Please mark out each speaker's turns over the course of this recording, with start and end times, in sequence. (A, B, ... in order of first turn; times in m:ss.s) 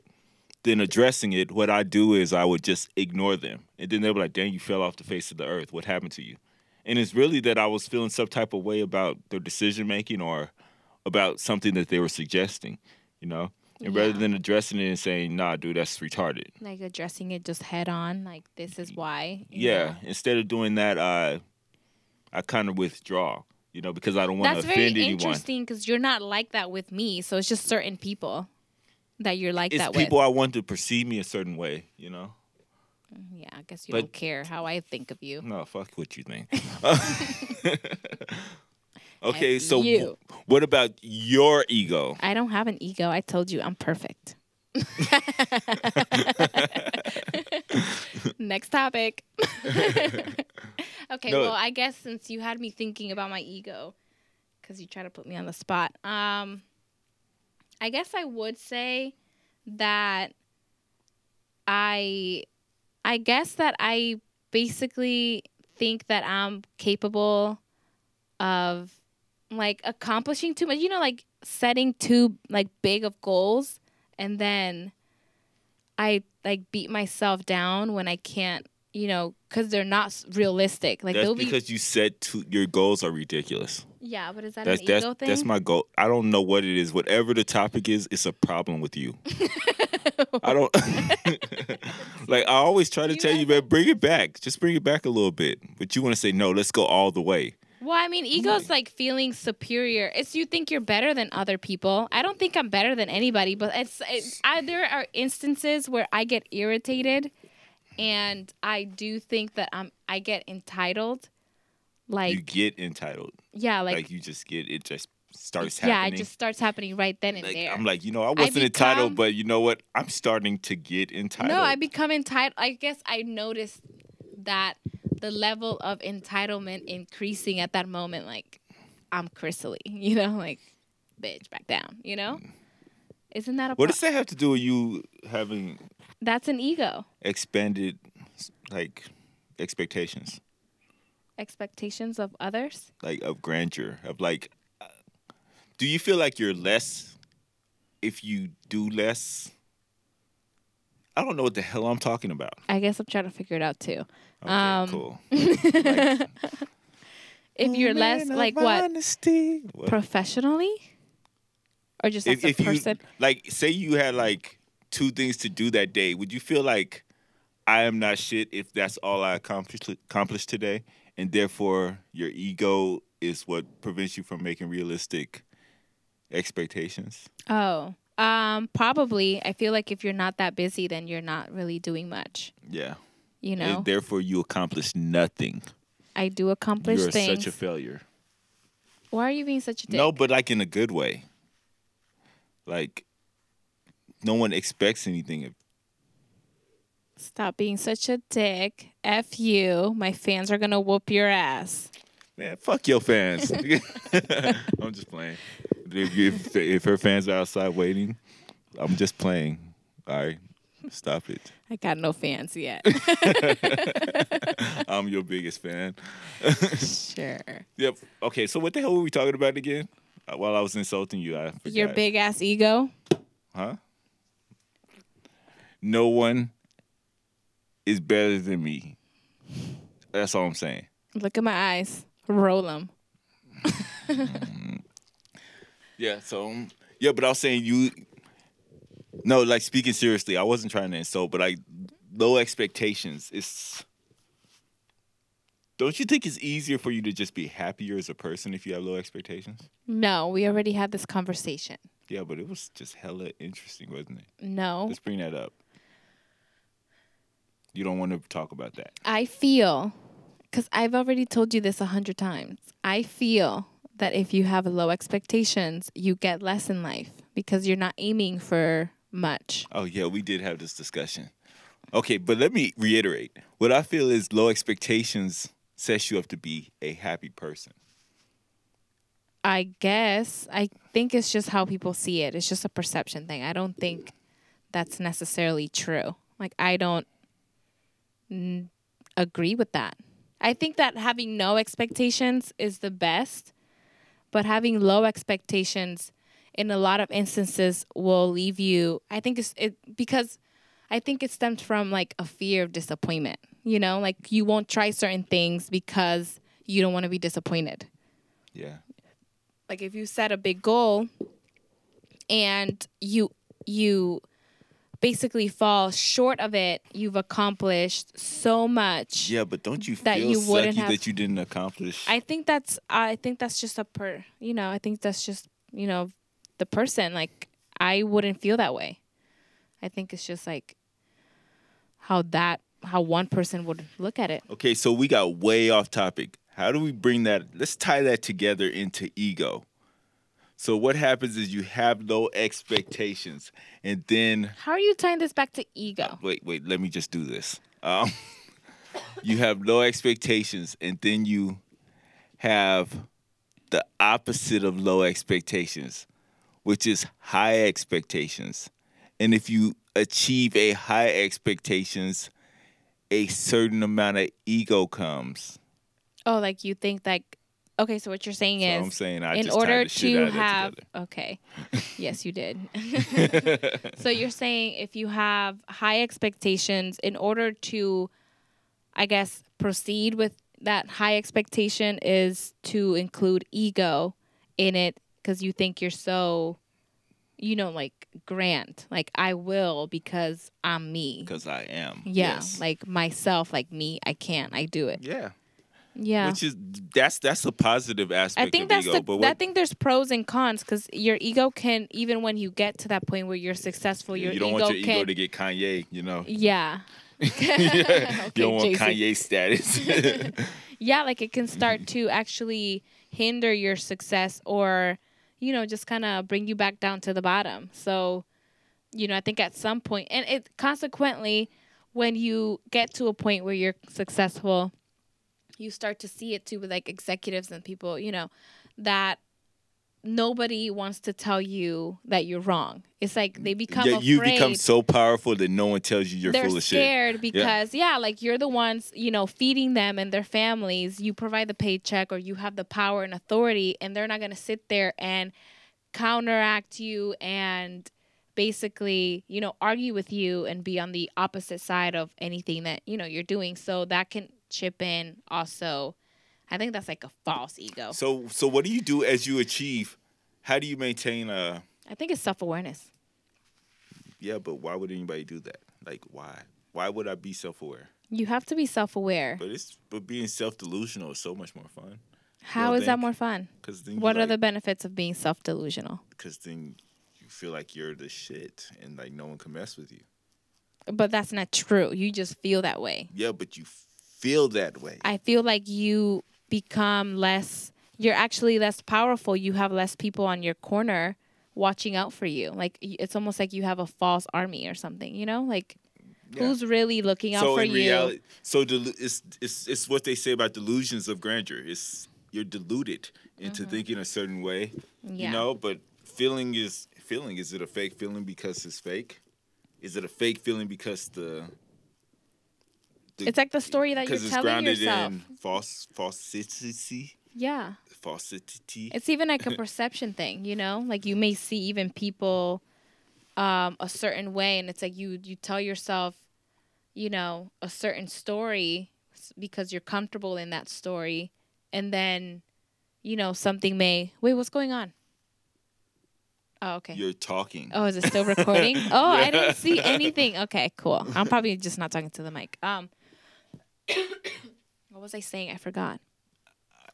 0:00.6-0:10.5 A
0:11.0-0:16.5 A
0:13.8-0:14.3 B
0:16.6-0:20.0 B
0:19.5-0:21.4 A
0:22.3-0:25.4 A
0:24.4-0:28.5 B
0:29.2-0:30.1 B
0:29.7-0:32.4 A
0:33.2-0:35.4 B
0:35.4-0:38.5 A
0:37.0-0:37.5 B
0:39.2-0:42.2 A
0:39.3-0:40.2 B
0:42.2-0:47.7 B
0:46.1-0:47.1 A
0:47.7-0:48.0 A
0:48.3-0:54.0 B
0:49.7-0:50.3 A
0:51.3-0:51.6 A
0:54.6-0:56.6 B
0:57.8-0:59.2 B
0:59.7-1:00.3 B
1:01.7-1:02.5 B
1:03.0-1:07.6 B
1:08.4-1:09.0 B
1:09.5-1:14.9 B
1:16.0-1:21.6 B
1:21.1-1:23.8 A
1:24.0-1:25.5 B
1:24.6-1:29.2 A
1:29.3-1:32.5 B
1:30.4-1:37.6 A
1:33.0-1:34.0 B
1:37.8-1:47.3 B
1:38.4-1:38.7 A
1:48.0-1:51.3 B
1:52.1-1:52.5 B
1:52.3-1:53.4 A
1:53.5-1:54.1 B
1:53.9-1:56.3 A
1:55.6-1:57.8 B
1:57.4-2:01.8 A
1:58.4-1:59.2 B
2:01.4-2:03.8 B
2:04.4-2:08.6 B
2:09.1-2:10.6 B
2:11.2-2:12.4 B
2:13.3-2:14.0 B
2:13.8-2:15.8 A
2:16.2-2:17.1 B
2:17.2-2:20.4 A
2:21.4-2:22.9 B
2:23.0-2:24.9 A
2:25.8-2:27.2 A
2:28.0-2:29.5 A
2:31.2-2:32.6 A
2:32.7-2:36.6 B
2:34.4-2:36.3 A
2:37.6-2:38.9 B
2:37.6-2:40.0 A
2:39.9-2:40.8 B
2:42.0-2:43.0 B
2:42.2-2:47.0 A
2:47.7-2:55.4 A
2:56.3-2:57.3 A
2:57.5-3:02.5 B
3:02.7-3:03.0 A
3:03.4-3:03.9 B
3:03.6-3:05.7 A
3:06.2-3:07.6 B
3:06.8-3:08.0 A
3:09.1-3:10.2 B
3:09.9-3:11.3 A
3:12.7-3:13.1 A
3:14.2-3:15.6 A
3:17.2-3:21.9 B
3:22.4-3:28.2 A
3:28.8-3:31.5 A
3:31.7-3:34.6 B
3:32.9-3:36.9 A
3:36.7-3:37.6 B
3:37.8-3:42.0 A
3:41.6-3:42.9 B
3:45.8-3:46.5 A
3:47.9-3:49.0 A
3:50.1-3:50.9 A
3:51.2-3:52.9 B
3:53.6-3:54.4 B
3:54.2-3:54.8 A
3:56.0-3:58.0 A
3:59.2-4:03.8 A
4:05.8-4:09.7 A
4:09.9-4:11.8 B
4:12.1-4:14.3 A
4:14.4-4:15.0 B
4:14.9-4:15.5 A
4:17.7-4:19.0 A
4:19.0-4:20.0 B
4:20.5-4:29.7 B
4:29.7-4:31.3 A
4:31.9-4:37.8 A
4:39.4-4:44.1 B
4:44.7-4:47.1 B
4:48.3-4:53.5 B
4:54.3-5:00.4 B
5:00.9-5:07.9 B
5:08.5-5:08.8 A
5:09.7-5:11.1 B
5:12.3-5:14.2 B
5:15.0-5:19.3 B
5:19.2-5:22.2 A
5:20.0-5:21.0 B
5:22.1-5:29.0 B
5:29.8-5:30.8 B
5:32.0-5:34.4 B
5:34.5-5:39.7 A
5:40.6-5:44.6 A
5:44.6-5:46.2 B
5:46.0-5:48.1 A
5:49.2-5:51.6 A
5:52.4-5:53.1 A
5:53.7-5:56.1 A
5:56.6-6:02.3 A
6:03.1-6:05.6 A
6:06.3-6:11.4 B
6:08.6-6:10.8 A
6:12.0-6:18.1 B
6:13.1-6:14.0 A
6:19.0-6:26.6 B
6:27.4-6:31.3 B
6:31.3-6:32.6 A
6:32.0-6:35.0 B
6:35.0-6:35.3 A
6:36.0-6:36.4 B
6:36.2-6:39.4 A
6:38.4-6:45.1 B
6:44.1-6:46.3 A
6:46.2-6:49.0 B
6:47.2-6:50.6 A
6:50.0-6:58.3 B
6:58.9-7:04.7 B
7:05.6-7:09.2 B
7:10.0-7:14.6 B
7:13.4-7:17.5 A
7:16.2-7:25.3 B
7:25.9-7:36.0 B
7:36.5-7:38.0 B
7:37.9-7:41.6 A
7:41.9-7:42.9 B
7:44.2-7:47.9 A
7:48.1-7:49.4 B
7:49.4-7:52.0 A
7:52.4-7:56.0 B
7:52.6-7:53.1 A
7:53.6-7:54.4 A
7:56.2-8:00.0 A
8:00.9-8:03.1 B
8:03.1-8:05.0 A
8:05.0-8:15.8 B
8:16.3-8:16.6 A
8:16.4-8:18.2 B
8:17.3-8:29.2 A
8:23.4-8:23.8 B
8:25.0-8:25.5 B
8:29.8-8:31.5 A
8:33.2-8:37.2 A
8:33.2-8:35.2 B
8:37.4-8:37.8 B
8:37.9-8:38.9 A
8:38.9-8:42.6 B
8:43.4-8:46.2 B
8:47.0-8:52.4 B
8:53.0-8:54.9 B
8:56.6-8:57.0 B
8:56.9-9:00.1 A
8:57.7-9:02.9 B
9:04.9-9:06.0 B